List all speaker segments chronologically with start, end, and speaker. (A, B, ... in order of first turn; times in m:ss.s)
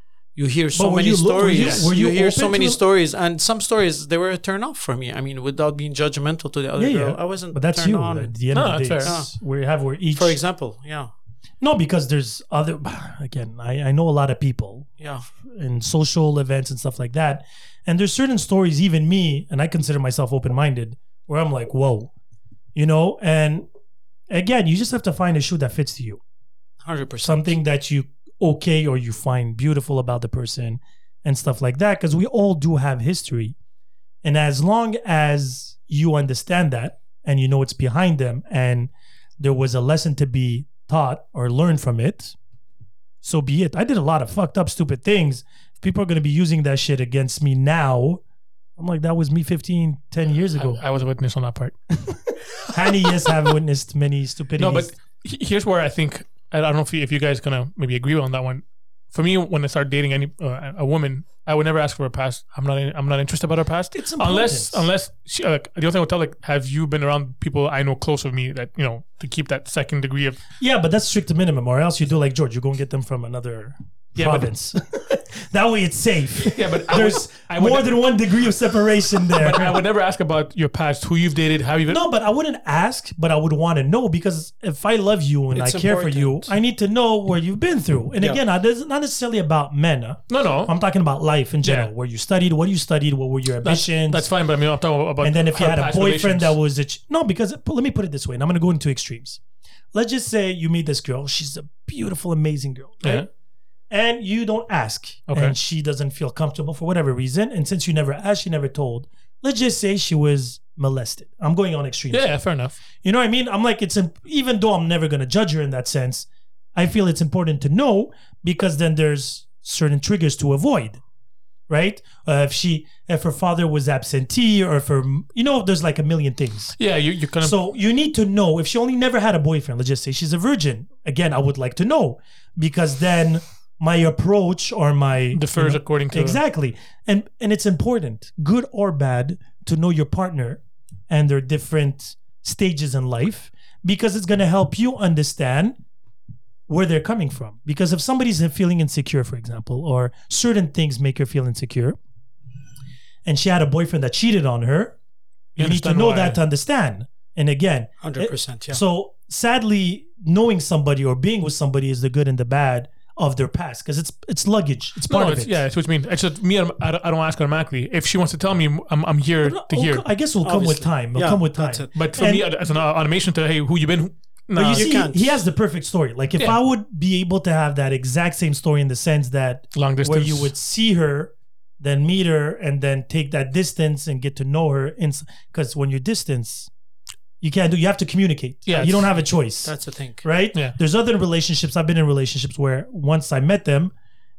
0:00.3-0:08.3 A
0:00.7-0:02.8 B
0:01.5-0:01.9 C
0:06.8-0:10.4 B
0:08.5-0:09.2 C
0:09.0-0:09.3 A
0:10.1-0:11.1 A
0:11.6-0:14.9 B
0:15.0-0:15.3 A
0:15.4-0:22.1 B
0:22.7-0:23.7 B
0:24.3-0:26.2 B
0:26.8-0:27.6 A
0:27.2-0:33.5 B
0:34.2-0:42.4 B
0:43.2-0:48.2 B
0:48.8-0:50.8 B
0:50.6-0:51.8 C
0:52.7-0:54.9 B
0:54.6-1:10.4 C
1:03.9-1:04.8 B
1:10.6-1:19.8 B
1:14.2-1:14.5 C
1:16.4-1:18.0 C
1:19.3-1:22.0 C
1:21.9-1:34.3 B
1:25.5-1:26.4 A
1:30.3-1:30.7 C
1:31.6-1:31.9 C
1:33.6-1:36.5 C
1:35.2-1:39.4 B
1:39.9-1:43.3 B
1:43.0-1:43.3 C
1:43.9-1:52.4 B
1:45.3-1:45.6 C
1:52.1-1:52.7 C
1:52.9-2:01.0 B
2:01.7-2:06.8 B
2:06.8-2:07.6 C
2:07.4-2:25.8 B
2:15.3-2:16.4 C
2:26.7-2:32.0 B
2:33.2-2:35.0 B
2:35.6-2:36.4 C
2:35.6-2:45.6 B
2:38.0-2:38.8 A
2:45.0-2:50.0 C
2:49.4-2:52.5 B
2:50.4-2:52.0 A
2:51.9-2:54.9 C
2:54.5-3:06.7 B
2:54.6-2:55.4 A
2:59.7-3:00.5 C
3:07.4-3:13.9 B
3:08.6-3:09.0 C
3:09.6-3:10.2 A